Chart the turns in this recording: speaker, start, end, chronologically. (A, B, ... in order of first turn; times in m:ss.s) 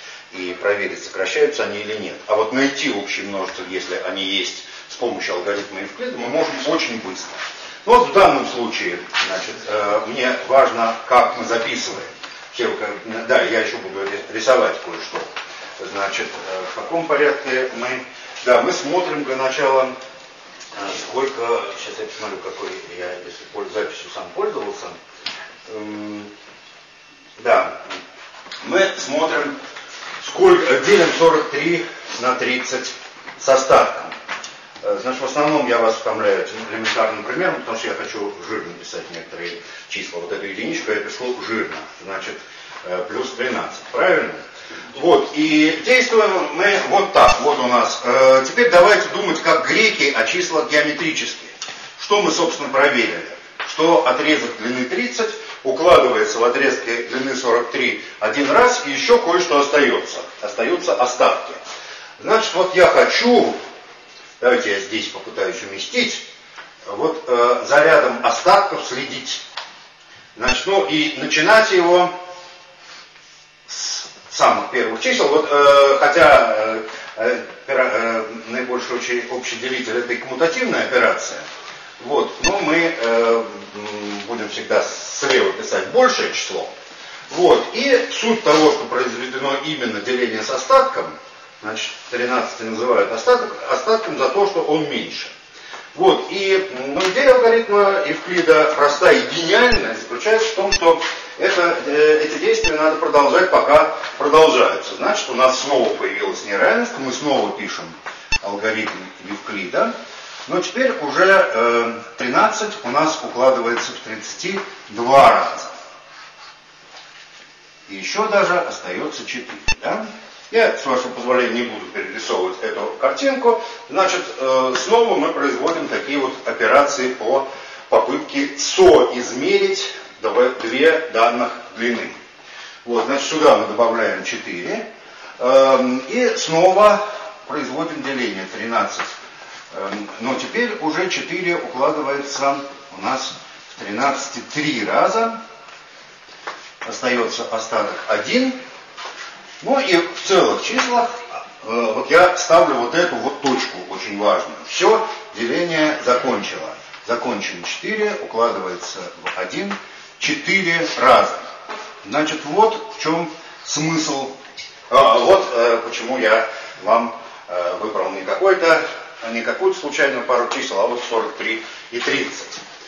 0:00.3-0:20.0 A
0:20.8-0:25.0 A
0:25.7-0:26.3 A
0:27.4-0:28.0 A
0:28.6-0:29.6 A
0:30.2-0:34.1 A
0:34.8-1:01.6 A
1:02.2-1:03.6 A
1:04.4-1:06.2 A
1:06.9-1:09.4 A
1:10.4-1:12.1 A
1:13.7-1:21.4 A
1:22.0-1:26.7 A
1:27.3-1:35.3 A
1:35.9-1:49.9 A
1:50.5-1:55.7 A
1:57.9-2:12.2 A
2:12.8-2:14.9 A
2:15.4-2:19.1 A
2:19.7-2:25.4 A
2:26.8-2:28.6 A
2:29.6-2:41.5 A
2:42.0-2:44.4 A
2:44.9-2:52.6 A